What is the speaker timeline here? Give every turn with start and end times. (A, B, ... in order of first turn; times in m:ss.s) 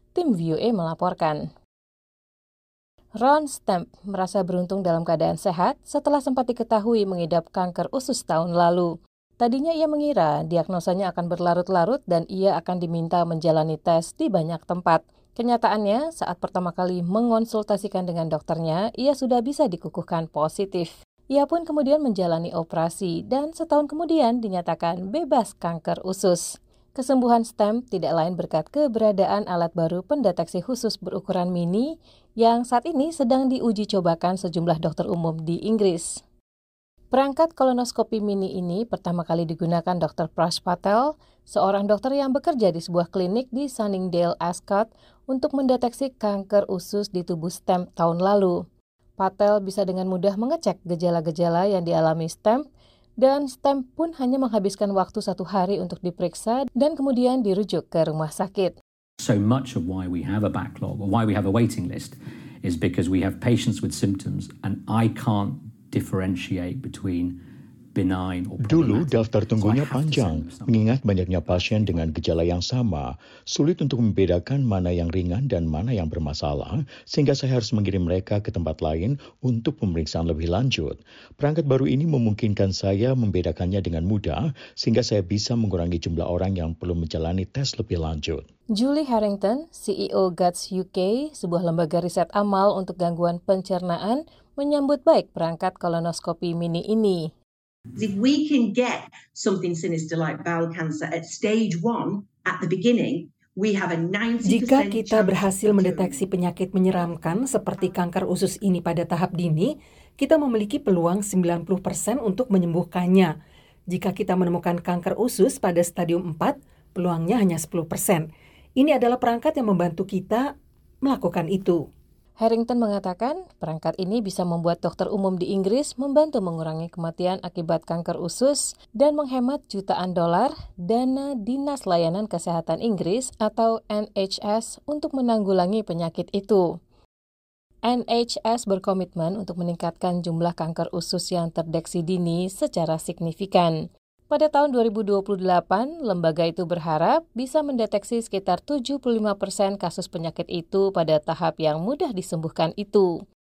0:00.1-0:01.4 A
0:03.2-0:08.9 A
0:09.4-0:26.4 A
0:27.0-0:36.2 A
0:37.1-0:48.6 A
0:49.2-0:52.6 A
0:53.2-0:58.8 A
0:59.2-1:07.4 B
1:08.0-1:12.2 B
1:08.6-1:28.5 C
1:28.8-1:37.3 A
1:38.0-1:46.2 D
1:44.4-1:53.3 E
1:53.9-1:58.3 E
1:58.8-2:00.5 E
2:01.0-2:01.8 E
2:02.4-2:16.6 A
2:17.9-2:23.7 A
2:24.3-2:33.1 A